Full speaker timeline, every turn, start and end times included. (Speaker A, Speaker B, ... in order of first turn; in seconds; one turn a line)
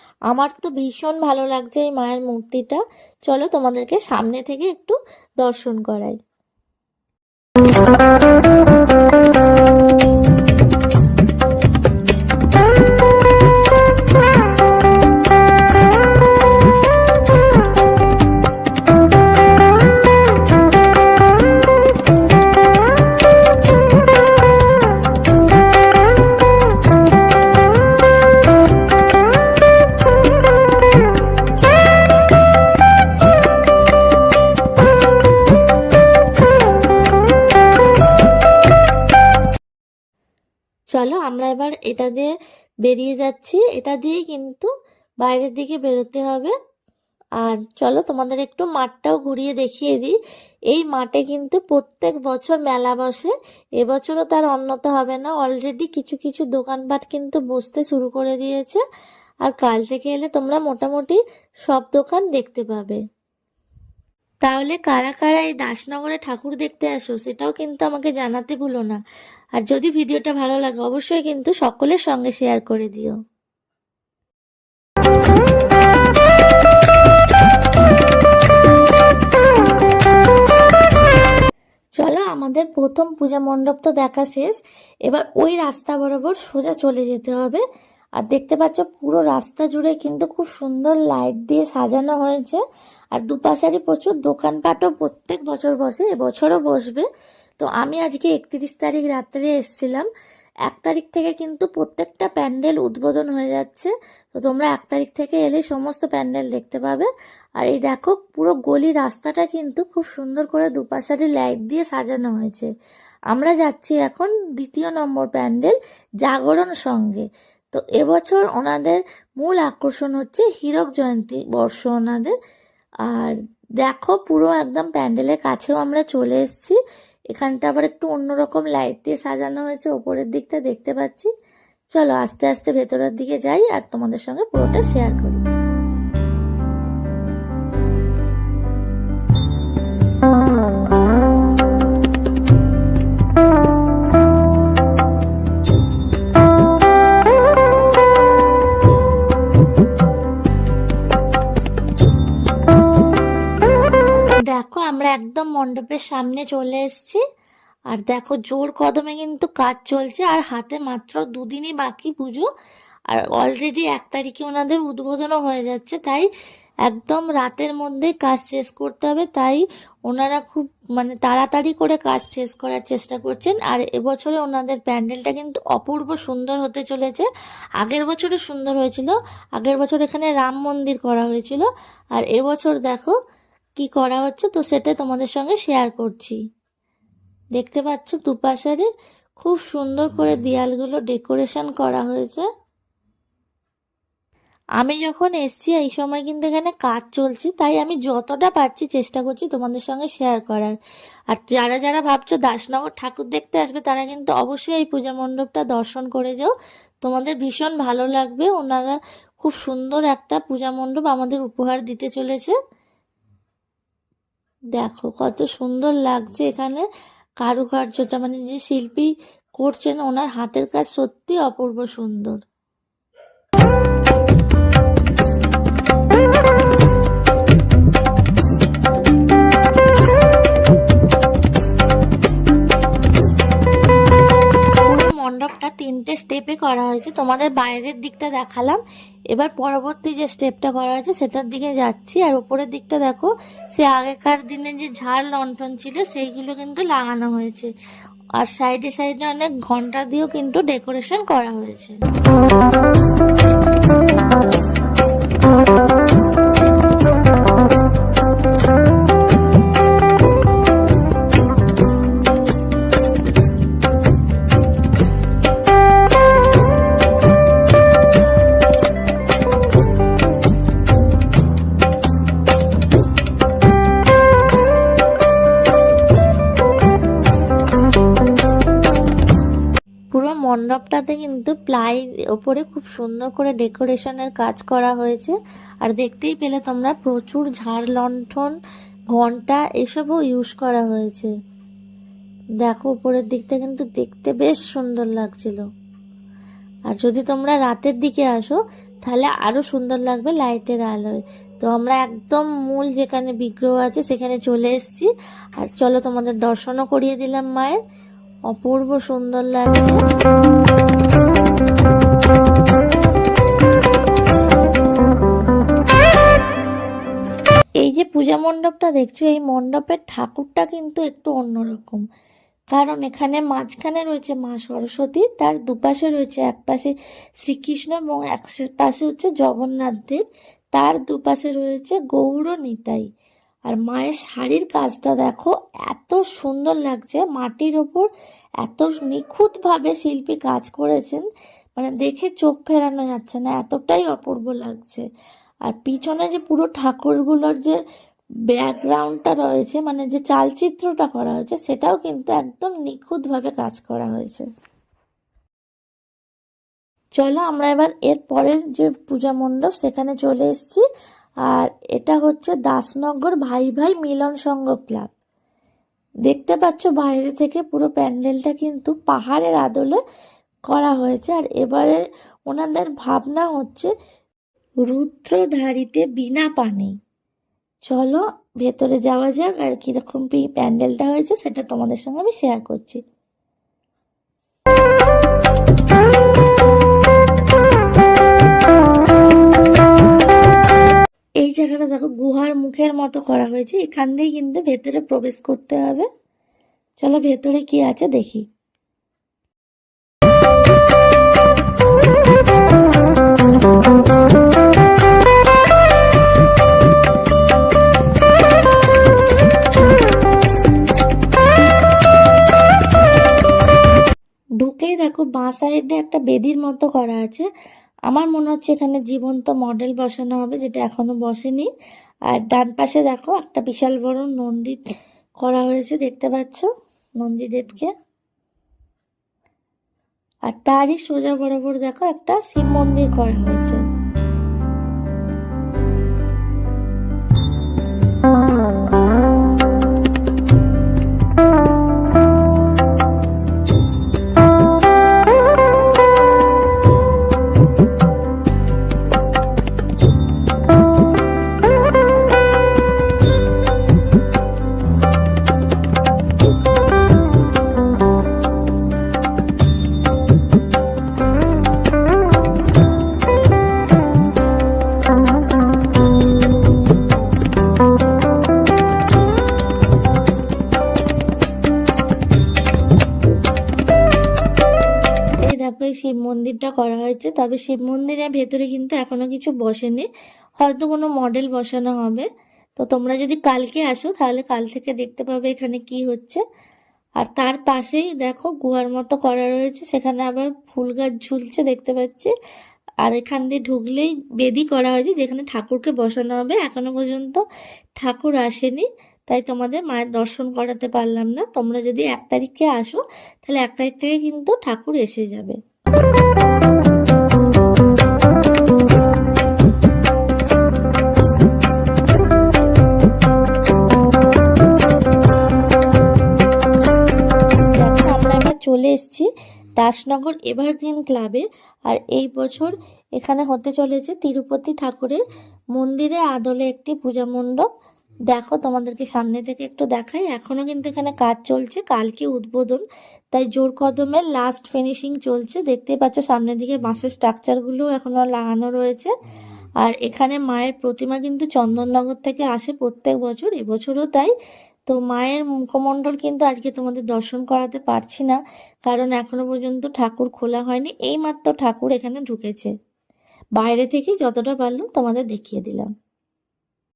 Speaker A: 0.3-6.2
Speaker A: 40.9-42.3
Speaker A: 42.8-44.7
Speaker A: 45.2-46.5
Speaker A: 47.4-50.1
Speaker A: 50.7-58.8
Speaker A: 59.4-63.0
Speaker A: 64.4-69.0
Speaker A: 69.5-73.2
Speaker A: 82.0-87.6
Speaker A: 88.2-92.6
Speaker A: 93.1-97.1
Speaker A: 97.6-100.1
Speaker A: 100.7-107.1
Speaker A: 107.6-112.7
Speaker A: 113.3-122.3
Speaker A: 123.1-126.8
Speaker A: 127.3-131.3
Speaker A: 131.9-135.4
Speaker A: 154.4-157.2
Speaker A: 157.9-162.5
Speaker A: 163.1-166.3
Speaker A: 166.9-177.3
Speaker A: 177.8-183.2
Speaker A: 183.8-186.4
Speaker A: 187.6-188.9
Speaker A: 189.4-192.5
Speaker A: 194.8-200.8
Speaker A: 201.3-206.5
Speaker A: 207.0-212.5
Speaker A: 214.8-216.8
Speaker A: 217.4-222.4
Speaker A: 234.8-247.7
Speaker A: 248.4-252.0
Speaker A: 280.1-288.6
Speaker A: 289.1-291.3
Speaker A: 292.6-295.6
Speaker A: 296.9-307.8
Speaker A: 308.5-310.0
Speaker A: 317.8-322.0
Speaker A: 322.7-330.2
Speaker A: 330.7-333.1
Speaker A: 333.7-338.1
Speaker A: 338.6-341.2
Speaker A: 341.8-345.1
Speaker A: 345.6-347.8
Speaker A: 348.5-354.5
Speaker A: 357.2-360.8
Speaker A: 361.5-365.1
Speaker A: 366.3-370.0
Speaker A: 370.7-373.9
Speaker A: 374.8-376.9
Speaker A: 377.9-383.0
Speaker A: 391.4-396.1
Speaker A: 397.0-398.4
Speaker A: 414.6-417.5
Speaker A: 418.1-421.7
Speaker A: 422.3-424.8
Speaker A: 425.4-426.7
Speaker A: 427.2-427.9
Speaker A: 430.5-433.8
Speaker A: 475.4-480.1
Speaker A: 480.6-486.4
Speaker A: 487.2-492.3
Speaker A: 493.0-497.4
Speaker A: 498.0-505.6
Speaker A: 517.6-525.2
Speaker A: 525.7-527.7
Speaker A: 528.3-539.1
Speaker A: 539.8-544.3
Speaker A: 544.9-552.7
Speaker A: 553.6-555.9